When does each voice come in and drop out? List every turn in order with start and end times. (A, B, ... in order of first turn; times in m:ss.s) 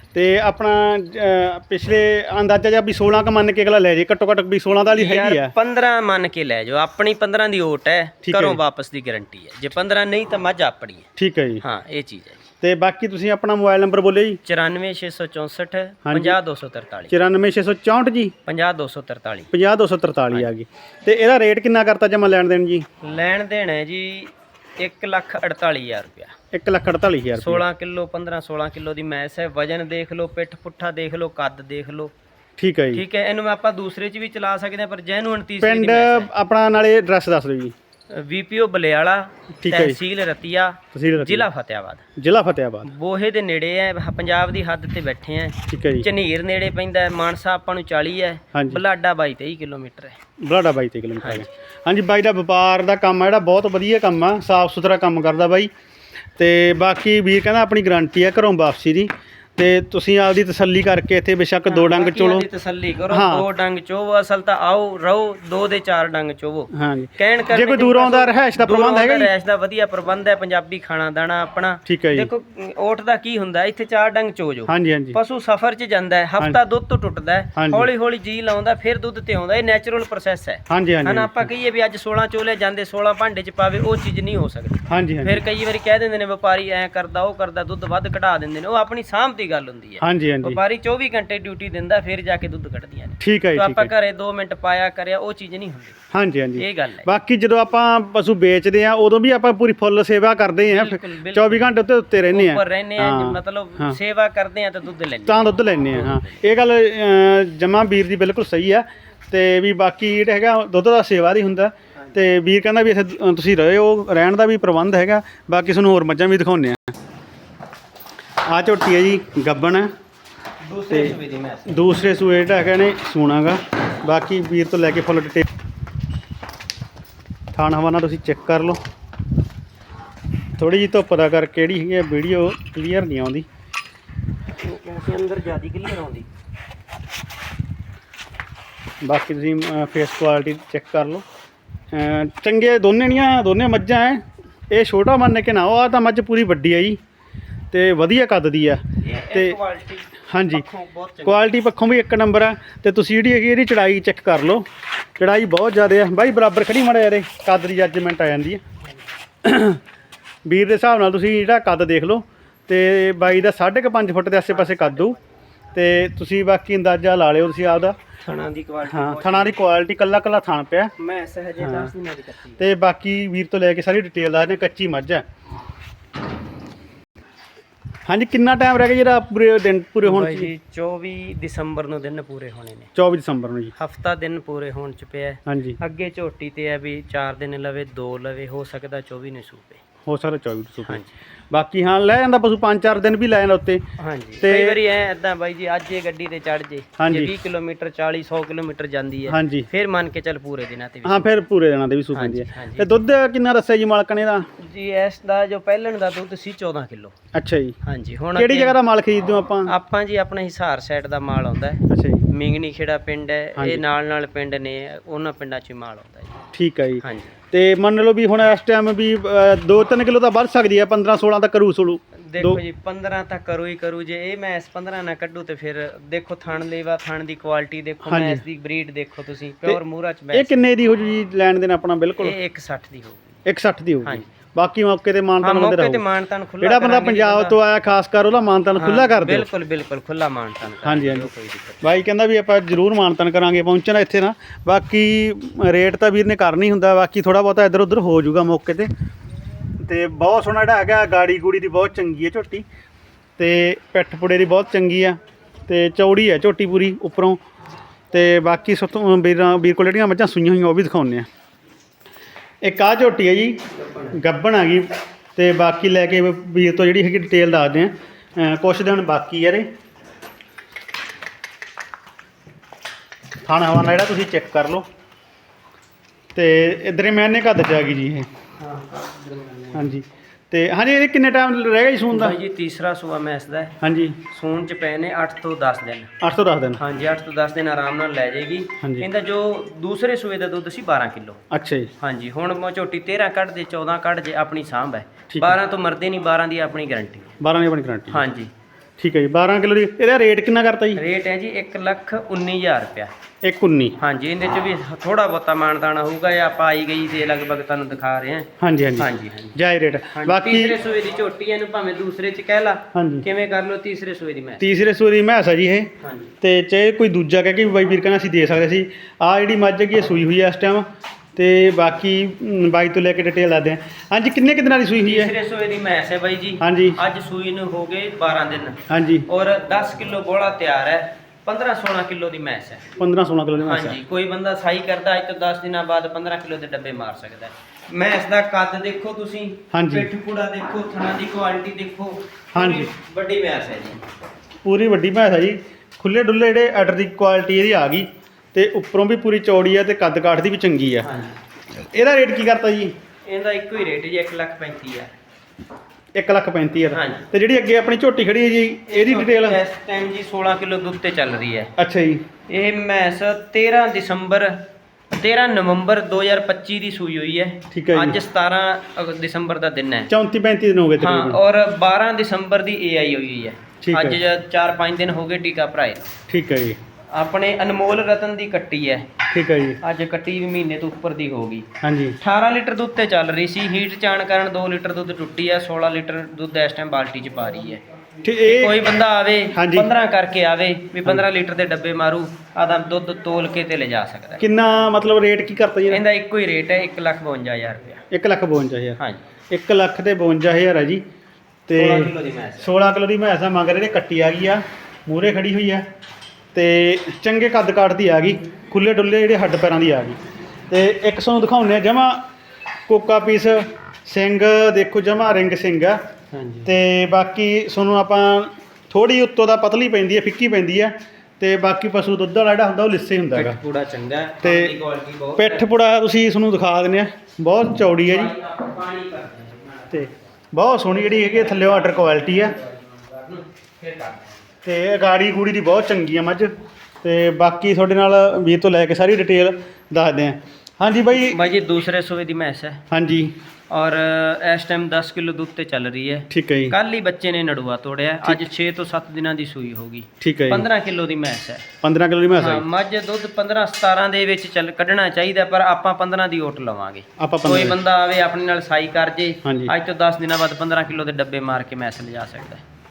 0:00.1-0:05.5 A
0:04.9-0:11.1 B
0:08.2-0:08.6 A
0:11.2-0:11.6 A
0:11.6-0:12.4 B
0:12.6-0:14.4 A
0:14.4-0:17.1 B
0:16.1-0:16.4 A
0:17.1-0:18.3 A
0:18.5-0:19.5 B
0:19.5-0:22.9 A
0:23.0-0:26.3 B
0:26.5-0:27.6 A
0:27.4-0:32.1 B
0:32.6-0:33.0 A
0:32.9-0:36.3 B
0:35.6-0:37.7 A
0:38.1-0:42.0 B
0:39.6-0:40.0 A
0:40.9-0:41.5 A
0:42.2-0:42.9 A
0:42.8-0:50.2 B
0:45.7-0:46.1 A
0:48.5-0:48.8 A
0:50.4-0:55.7 A
0:51.2-0:51.5 B
0:56.4-1:02.5 A
1:01.7-1:36.0 B
1:03.1-1:03.4 A
1:06.7-1:09.3 A
1:11.9-1:12.3 A
1:14.7-1:15.2 A
1:17.6-1:17.9 A
1:20.7-1:21.5 A
1:24.9-1:25.4 A
1:30.0-1:30.6 A
1:33.2-1:33.9 A
1:36.1-1:44.0 A
1:36.6-1:37.1 B
1:40.6-1:41.6 B
1:42.3-1:46.4 B
1:45.3-1:56.9 A
1:58.4-1:59.9 A
2:00.6-2:01.9 B
2:00.9-2:01.2 A
2:01.7-2:05.5 A
2:07.5-2:08.8 A
2:10.6-2:13.5 A
2:14.6-2:16.3 B
2:19.0-2:21.2 A
2:21.9-2:27.0 A
2:27.7-2:29.6 A
2:29.0-2:31.6 B
2:30.3-2:30.6 A
2:31.2-2:34.7 A
2:35.2-2:38.6 A
2:39.4-2:39.8 A
2:40.5-2:45.2 A
2:44.5-2:45.2 B
2:45.7-2:48.0 A
2:48.2-2:49.6 B
2:48.9-2:50.9 A
2:51.0-2:52.6 B
2:51.6-2:51.9 A
2:52.6-2:55.2 A
2:58.1-3:00.5 A
3:00.0-3:02.9 B
3:03.0-3:03.7 A
3:03.8-3:09.8 B
3:05.5-3:05.8 A
3:10.1-3:11.0 A
3:10.9-3:11.1 B
3:11.5-3:13.8 A
3:14.0-3:21.3 B
3:14.4-3:14.8 A
3:17.0-3:17.3 A
3:19.3-3:19.7 A
3:21.0-3:24.5 A
3:22.2-3:22.9 B
3:24.6-3:27.1 B
3:27.3-3:27.8 A
3:27.8-3:28.8 B
3:28.4-3:29.7 A
3:29.7-3:36.4 B
3:31.9-3:32.2 A
3:33.6-3:33.8 A
3:36.5-3:42.6 A
3:37.0-3:37.4 B
3:42.3-3:50.6 B
3:48.1-3:48.4 A
3:50.3-3:52.4 A
3:52.2-3:53.4 B
3:53.4-3:56.0 A
3:55.4-3:57.6 B
3:56.6-3:59.5 A
3:58.8-4:02.0 B
4:00.8-4:01.3 A
4:01.8-4:08.9 A
4:09.8-4:12.6 A
4:13.4-4:17.4 A
4:18.1-4:21.3 A
4:22.6-4:23.6 A
4:23.7-4:24.2 B
4:24.1-4:29.7 A
4:33.5-4:34.8 A
4:36.4-4:38.3 A
4:38.6-4:39.9 B
4:39.7-4:42.4 A
4:42.1-4:46.1 B
4:43.8-4:44.2 A
4:46.2-4:46.8 A
4:46.8-4:51.4 B
4:48.8-4:49.1 A
4:51.5-4:51.9 A
4:52.0-4:57.4 B
4:55.3-4:55.6 A
4:57.4-4:58.2 A
4:58.1-4:58.5 B
4:59.0-5:01.0 A
5:01.0-5:03.1 B
5:03.4-5:04.0 A
5:04.0-5:09.6 B
5:08.6-5:10.8 A
5:10.2-5:14.6 B
5:12.9-5:13.2 A
5:14.6-5:20.8 A
5:16.0-5:16.3 B
5:21.4-5:25.3 A
5:25.0-5:32.8 B
5:26.6-5:27.0 A
5:28.9-5:29.3 A
5:33.0-5:34.0 A
5:33.6-5:44.0 B
5:39.7-5:40.1 A
5:42.6-5:42.9 A
5:44.6-5:51.1 A
5:51.0-5:51.4 B
5:51.9-5:52.9 A
5:53.3-5:55.1 B
5:56.2-5:59.6 A
5:56.9-5:57.3 B
5:58.9-6:01.7 B
6:01.8-6:02.3 A
6:02.5-6:10.1 B
6:07.7-6:08.2 A
6:10.1-6:11.4 A
6:11.0-6:16.1 B
6:13.8-6:14.2 A
6:16.3-6:16.8 A
6:17.1-6:19.1 B
6:19.3-6:19.8 A
6:19.8-6:21.7 B
6:21.8-6:22.2 A
6:22.2-6:27.8 B
6:28.2-6:28.8 A
6:28.4-6:34.4 B
6:29.5-6:29.9 A
6:34.4-6:36.0 A
6:35.9-6:38.0 B
6:38.1-6:39.0 A
6:39.0-6:39.2 B
6:39.5-6:41.0 A
6:41.7-6:45.8 A
6:41.7-6:42.7 B
6:46.5-6:50.2 A
6:50.7-6:52.2 A
6:52.9-6:56.0 A
6:56.3-6:56.7 B
6:56.7-7:03.6 A
7:03.3-7:05.7 B
7:04.4-7:04.8 A
7:05.4-7:08.4 A
7:08.0-7:10.1 B
7:09.9-7:12.6 A
7:10.8-7:14.4 B
7:14.6-7:21.4 A
7:21.1-7:22.8 B
7:22.9-7:23.4 A
7:23.7-7:31.6 B
7:26.3-7:26.8 A
7:30.2-7:30.7 A
7:31.8-7:32.6 A
7:32.3-7:42.6 B
7:37.2-7:37.8 A
7:39.4-7:39.7 A